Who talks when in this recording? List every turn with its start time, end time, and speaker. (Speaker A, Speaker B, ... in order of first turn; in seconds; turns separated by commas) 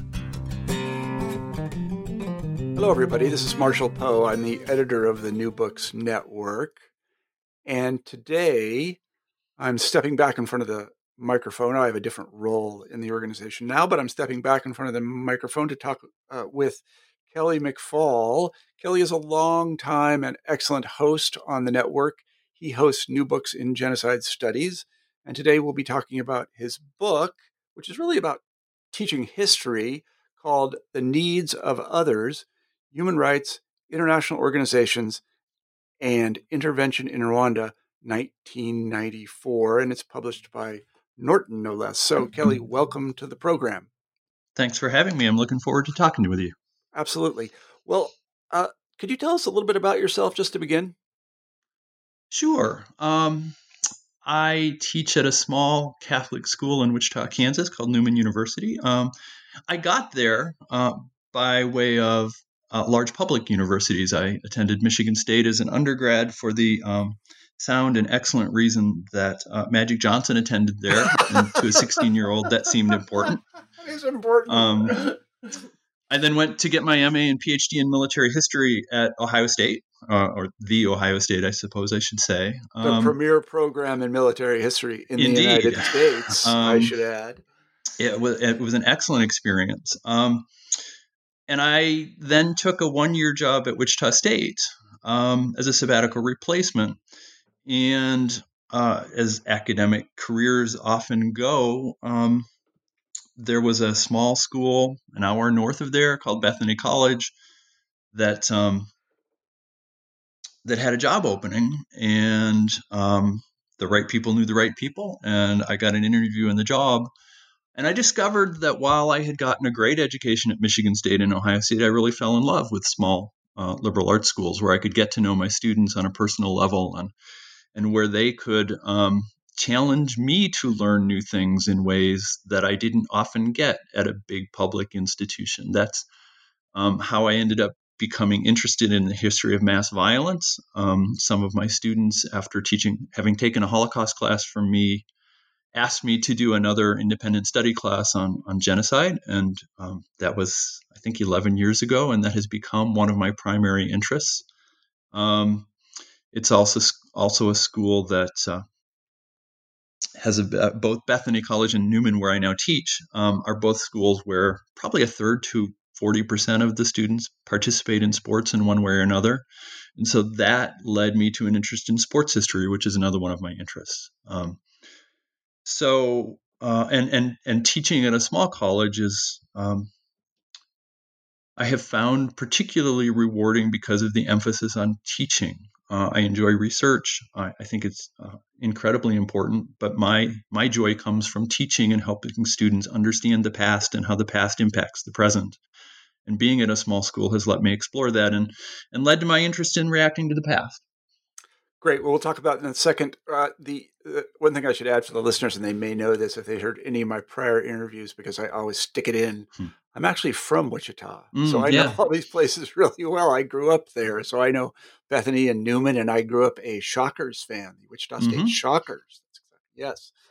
Speaker A: 2.8-6.8, Speaker A: 7.7-9.0, Speaker A: 9.6-35.2, Speaker A: 36.0-43.9, Speaker B: 44.5-46.5, Speaker A: 47.0-51.0, Speaker B: 52.3-53.6, Speaker B: 54.2-59.1, Speaker B: 59.7-73.4, Speaker A: 71.0-72.0, Speaker A: 73.3-75.2, Speaker B: 74.5-75.0, Speaker B: 76.1-83.2, Speaker A: 82.8-87.5, Speaker B: 85.2-86.9, Speaker B: 88.0-90.5, Speaker B: 91.5-97.0, Speaker B: 97.7-102.5, Speaker B: 103.4-107.3, Speaker B: 108.1-108.9, Speaker B: 110.7-117.1, Speaker B: 117.8-127.1, Speaker B: 127.8-136.1, Speaker B: 136.7-145.1, Speaker B: 145.7-154.4, Speaker B: 155.1-155.7, Speaker B: 156.3-158.7, Speaker B: 160.2-169.4, Speaker B: 170.0-174.6, Speaker B: 175.7-179.9, Speaker B: 181.6-195.6, Speaker B: 196.3-200.8, Speaker A: 201.8-220.1, Speaker B: 211.3-212.0, Speaker B: 218.2-218.6